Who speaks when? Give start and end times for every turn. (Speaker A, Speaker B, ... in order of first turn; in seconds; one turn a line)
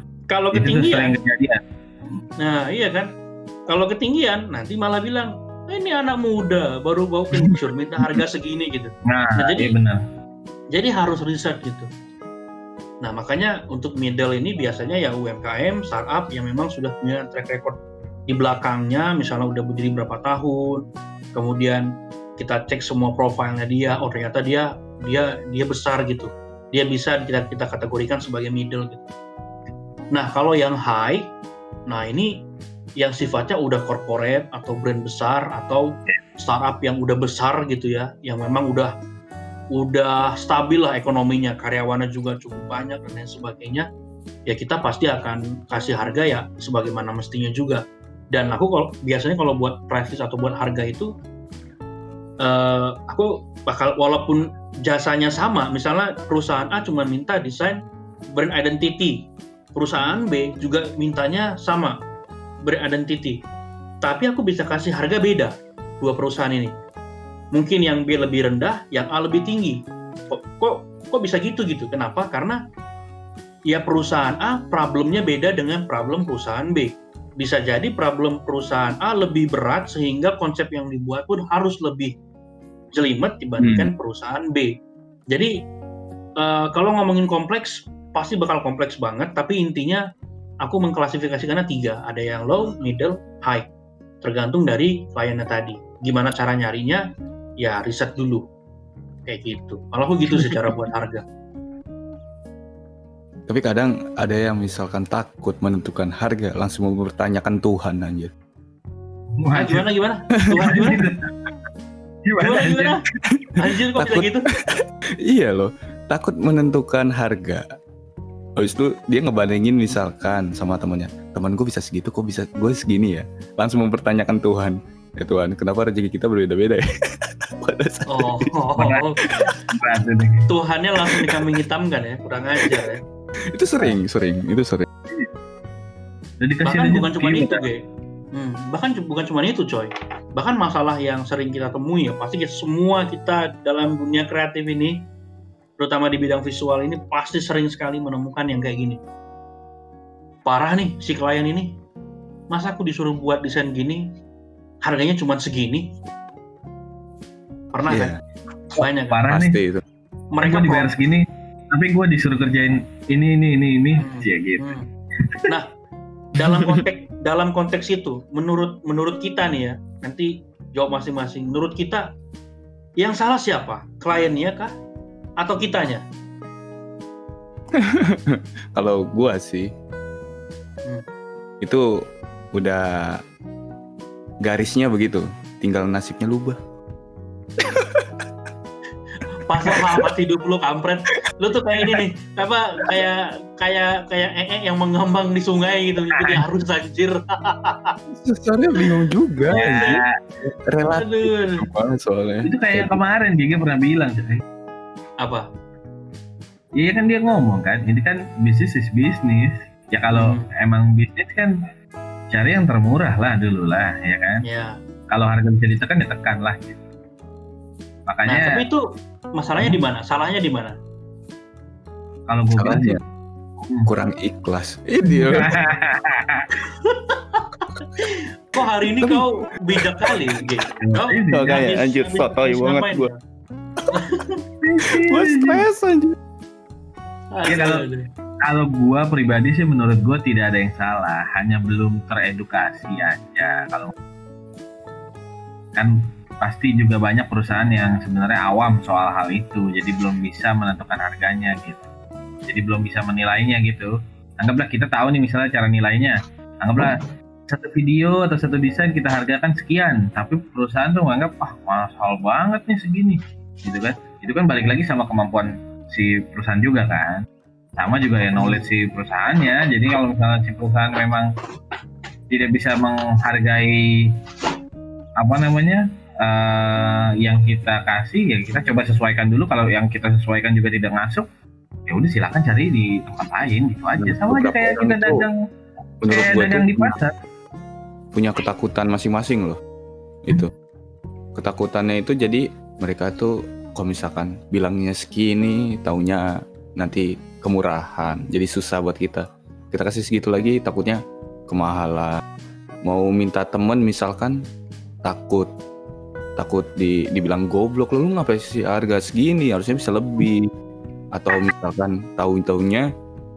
Speaker A: 0.3-1.1
Speaker B: 0.5-2.2
Speaker A: 2.4-3.1
Speaker A: 3.7-9.8
Speaker B: 7.4-8.2
Speaker B: 9.1-10.0
Speaker A: 10.7-11.9
Speaker A: 13.0-17.8
Speaker A: 18.3-20.8
Speaker A: 21.3-21.9
Speaker A: 22.4-29.0
Speaker A: 30.1-31.2
Speaker A: 31.9-32.3
Speaker A: 33.0-38.9
Speaker A: 39.7-43.9
Speaker A: 44.5-51.1
Speaker A: 52.4-57.8
Speaker A: 58.3-62.0
Speaker A: 62.6-63.4
Speaker A: 64.0-66.7
Speaker A: 67.5-72.6
Speaker A: 73.7-82.1
Speaker A: 82.9-84.7
Speaker C: 83.6-83.9
Speaker A: 86.4-90.0
Speaker A: 90.6-93.7
Speaker A: 94.2-97.0
Speaker A: 97.6-98.4
Speaker A: 99.3-101.2
Speaker C: 103.5-108.3
Speaker B: 109.4-109.9
Speaker A: 109.5-111.0
Speaker C: 110.5-110.8
Speaker B: 110.6-111.3
Speaker B: 112.2-112.9
Speaker A: 112.4-113.0
Speaker C: 113.3-117.6
Speaker A: 113.6-114.5
Speaker C: 118.6-126.8
Speaker C: 127.6-128.6
Speaker A: 128.1-129.2
Speaker B: 128.8-130.4
Speaker C: 129.2-129.5
Speaker A: 130.5-133.0
Speaker C: 131.1-131.4
Speaker C: 133.5-134.9
Speaker B: 136.4-137.6
Speaker A: 136.6-137.8
Speaker A: 138.3-145.0
Speaker A: 145.8-149.0
Speaker A: 150.4-151.7
Speaker A: 152.5-154.0
Speaker A: 154.8-155.9
Speaker A: 157.7-158.1
Speaker C: 157.9-158.2
Speaker A: 158.8-159.2
Speaker B: 158.8-159.6
Speaker C: 159.3-159.8
Speaker A: 160.3-160.9
Speaker B: 160.4-164.7
Speaker A: 164.0-164.8
Speaker B: 165.2-165.4
Speaker A: 166.3-172.1
Speaker A: 173.0-174.7
Speaker A: 175.4-176.0
Speaker C: 177.7-179.7
Speaker C: 182.5-183.2
Speaker C: 184.4-186.6
Speaker C: 187.6-188.1
Speaker A: 189.3-197.9
Speaker C: 189.6-190.1
Speaker C: 198.1-203.0
Speaker B: 199.5-200.1
Speaker A: 201.0-201.7
Speaker B: 202.4-204.4
Speaker A: 205.2-205.5
Speaker B: 206.8-211.6
Speaker A: 210.1-210.4
Speaker B: 212.3-214.4
Speaker A: 214.4-214.8
Speaker B: 215.1-216.8
Speaker B: 218.1-218.5
Speaker A: 218.2-218.8
Speaker A: 219.3-220.7
Speaker B: 222.3-223.0
Speaker C: 222.5-223.0
Speaker C: 223.8-225.6
Speaker B: 225.1-226.5
Speaker A: 226.7-233.2
Speaker C: 229.0-229.2
Speaker B: 230.8-231.5
Speaker C: 231.3-233.1
Speaker A: 233.9-234.4
Speaker B: 234.6-235.6
Speaker C: 234.9-236.2
Speaker A: 237.3-238.0
Speaker B: 237.5-237.8
Speaker B: 238.4-243.9
Speaker B: 245.7-251.8
Speaker B: 252.5-267.2
Speaker B: 267.8-271.3
Speaker A: 268.4-268.7
Speaker B: 272.3-274.1
Speaker B: 275.2-281.3
Speaker B: 281.9-285.4
Speaker C: 284.0-285.3
Speaker C: 286.0-287.0
Speaker B: 286.1-287.1
Speaker C: 288.1-289.6
Speaker C: 290.2-290.5
Speaker C: 291.4-302.2
Speaker C: 302.8-304.4
Speaker C: 305.0-305.5
Speaker C: 306.4-310.5
Speaker C: 311.1-312.9